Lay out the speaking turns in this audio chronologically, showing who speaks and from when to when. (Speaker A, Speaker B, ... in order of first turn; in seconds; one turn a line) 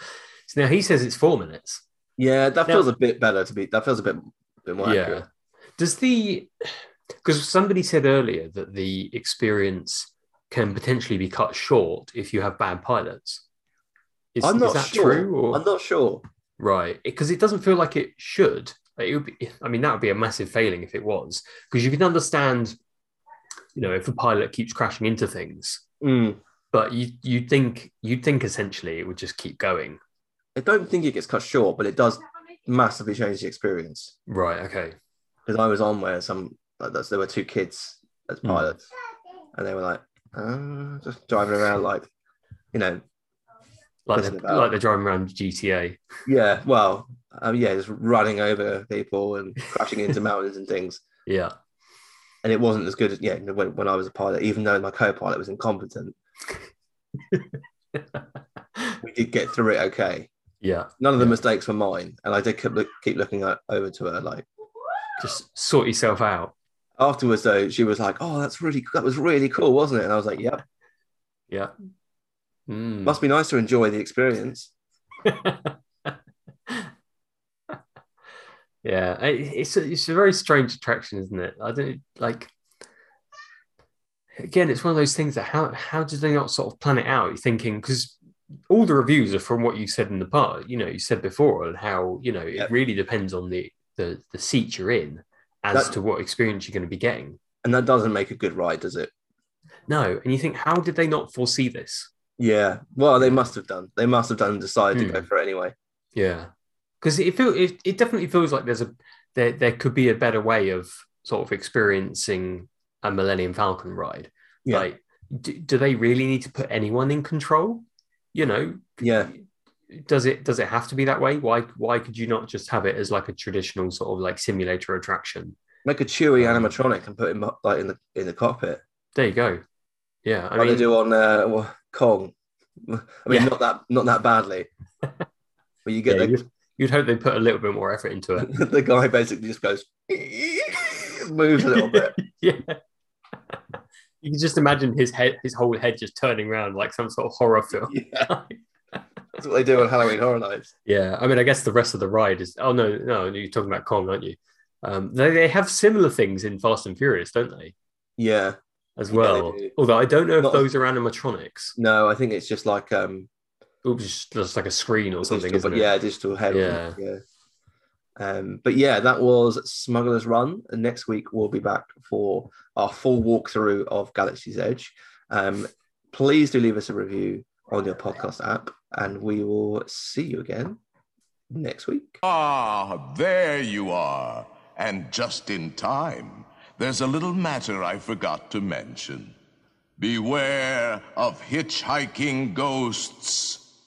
Speaker A: 0.5-1.8
Speaker B: 2.2-5.2
Speaker A: 4.8-5.3
Speaker A: 5.8-13.4
Speaker A: 14.4-15.6
Speaker B: 14.4-16.2
Speaker A: 16.6-22.8
Speaker A: 23.8-25.8
Speaker B: 26.0-26.4
Speaker A: 26.7-30.0
Speaker B: 30.6-34.1
Speaker A: 34.3-35.0
Speaker B: 35.5-38.9
Speaker A: 38.5-38.7
Speaker B: 39.5-42.1
Speaker B: 42.7-43.0
Speaker A: 44.1-46.0
Speaker B: 44.1-44.7
Speaker B: 46.3-51.0
Speaker A: 51.3-51.5
Speaker B: 52.4-56.1
Speaker B: 59.0-60.3
Speaker A: 60.6-61.4
Speaker B: 61.0-64.5
Speaker A: 65.2-66.5
Speaker B: 67.0-70.6
Speaker A: 72.7-73.2
Speaker B: 73.0-74.7
Speaker A: 75.2-75.7
Speaker A: 78.8-82.5
Speaker A: 84.4-88.2
Speaker A: 88.7-97.4
Speaker B: 97.6-99.1
Speaker A: 99.9-102.1
Speaker B: 102.4-105.7
Speaker A: 104.9-105.3
Speaker A: 106.2-106.5
Speaker A: 107.0-119.4
Speaker B: 119.0-119.3
Speaker A: 119.9-125.5
Speaker B: 125.8-128.8
Speaker A: 126.4-126.7
Speaker A: 129.2-129.6
Speaker A: 130.2-130.9
Speaker B: 130.6-132.3
Speaker B: 132.8-134.7
Speaker B: 135.8-136.4
Speaker A: 136.1-138.6
Speaker B: 138.4-142.2
Speaker A: 141.6-142.8
Speaker A: 144.2-148.6
Speaker B: 147.9-148.3
Speaker B: 149.4-150.7
Speaker A: 150.9-157.7
Speaker B: 158.2-158.6
Speaker A: 159.0-161.8
Speaker B: 159.1-159.7
Speaker B: 161.8-163.3
Speaker A: 163.8-165.9
Speaker B: 165.2-167.2
Speaker A: 166.5-167.0
Speaker B: 168.2-180.8
Speaker B: 181.5-182.2
Speaker C: 182.2-189.4
Speaker C: 190.0-193.6